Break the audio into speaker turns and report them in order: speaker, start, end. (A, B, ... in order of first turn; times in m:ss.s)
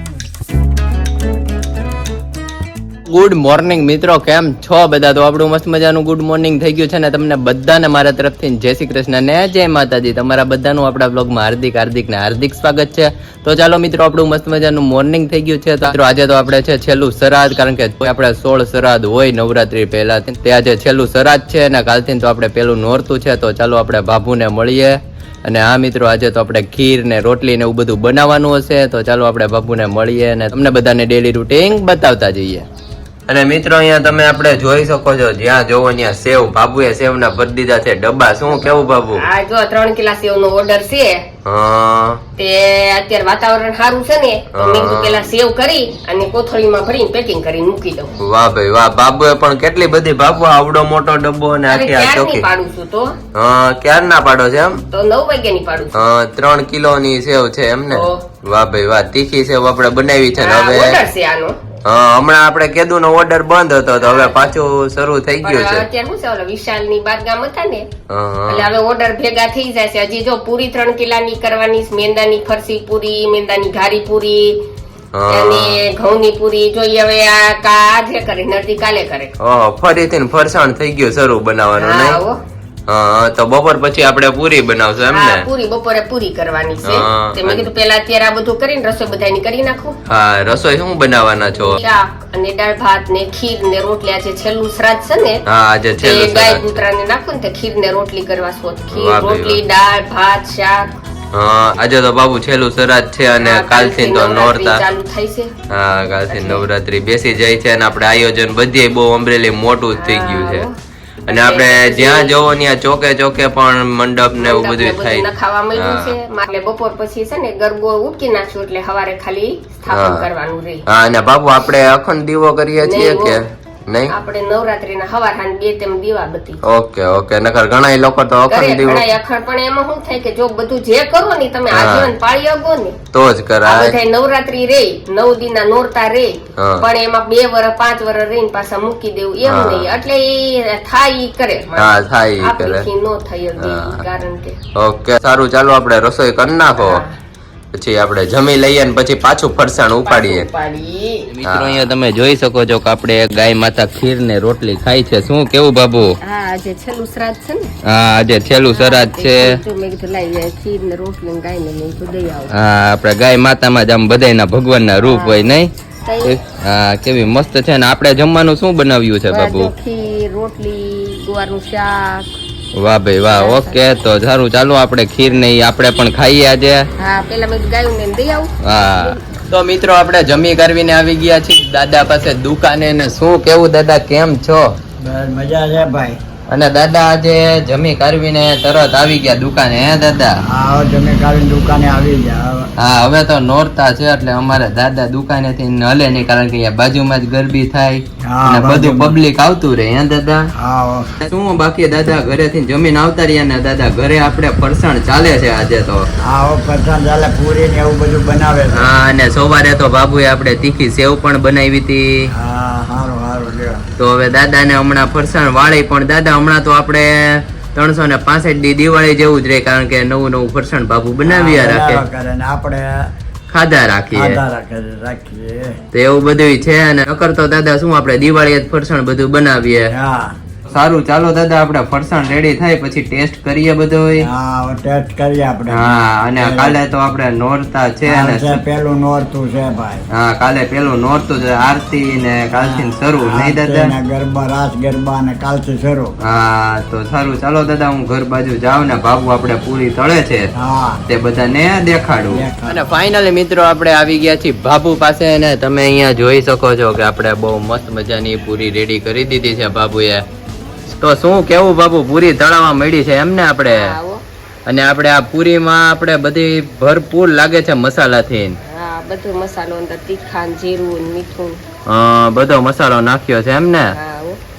0:03.1-0:32.7 A
0:33.3-0:39.2 A
0:38.5-0:41.2 B
0:41.4-0:42.2 A
0:42.4-0:48.1 B
0:44.5-0:45.3 A
0:48.2-0:52.4 A
0:51.7-0:53.2 B
0:53.3-0:54.8 A
0:54.8-0:55.9 B
0:55.9-1:01.0 A
0:57.9-0:58.2 B
1:00.4-1:01.6 B
1:01.8-1:05.8 A
1:04.0-1:04.5 B
1:05.4-1:07.9 B
1:08.1-1:08.7 A
1:08.5-1:14.6 B
1:15.1-1:15.8 A
1:15.3-1:19.3 B
1:19.4-1:22.2 A
1:21.8-1:22.4 B
1:22.9-1:25.5 A
1:25.0-1:30.0 B
1:26.8-1:27.7 A
1:30.1-1:31.8 A
1:31.6-1:35.4 B
1:35.4-1:36.8 A
1:36.0-1:40.9 B
1:38.9-1:39.6 A
1:41.3-1:44.8 A
1:43.4-1:45.5 B
1:45.7-1:50.7 A
1:46.3-1:46.7 B
1:49.9-1:50.8 B
1:51.3-1:56.2 A
1:51.3-1:52.5 B
1:54.4-2:00.8 B
1:59.9-2:00.2 A
2:00.9-2:04.1 A
2:02.8-2:03.4 B
2:04.1-2:06.6 B
2:06.6-2:09.1 A
2:08.5-2:13.0 B
2:11.7-2:12.1 A
2:13.1-2:14.0 A
2:13.6-2:24.6 B
2:16.6-2:16.8 A
2:19.4-2:19.9 A
2:21.8-2:22.8 A
2:23.6-2:24.0 A
2:24.8-2:27.0 A
2:26.8-2:27.2 B
2:27.7-2:30.5 A
2:30.0-2:31.3 B
2:31.4-2:36.1 A
2:36.2-2:37.7 B
2:37.8-2:39.6 A
2:38.7-2:42.5 B
2:42.5-2:45.7 A
2:45.0-2:45.5 B
2:46.0-2:46.4 B
2:46.2-2:49.7 A
2:49.3-2:52.3 B
2:52.7-2:56.9 A
2:53.2-2:53.8 B
2:57.0-2:59.2 B
2:58.6-3:04.7 A
3:05.0-3:06.2 C
3:06.5-3:10.4 A
3:10.5-3:12.7 C
3:12.8-3:20.5 A
3:18.2-3:19.2 C
3:20.6-3:21.1 C
3:21.2-3:26.1 A
3:26.3-3:28.9 C
3:28.7-3:32.3 A
3:32.3-3:33.8 C
3:34.0-3:42.0 A
3:41.2-3:42.8 C
3:43.5-3:44.4 A
3:44.1-3:45.7 C
3:45.9-3:49.9 A
3:49.9-3:50.4 C
3:50.7-3:54.3 A
3:54.2-3:56.8 C
3:55.7-3:58.6 A
3:58.0-4:00.0 C
4:00.1-4:03.9 A
4:02.6-4:06.1 C
4:06.2-4:10.5 A
4:10.6-4:11.0 C
4:11.1-4:20.2 A
4:12.3-4:12.8 C
4:20.9-4:23.9 A
4:23.7-4:24.2 B
4:24.6-4:28.6 A
4:28.6-4:31.6 B
4:31.9-4:33.9 A
4:33.9-4:34.4 B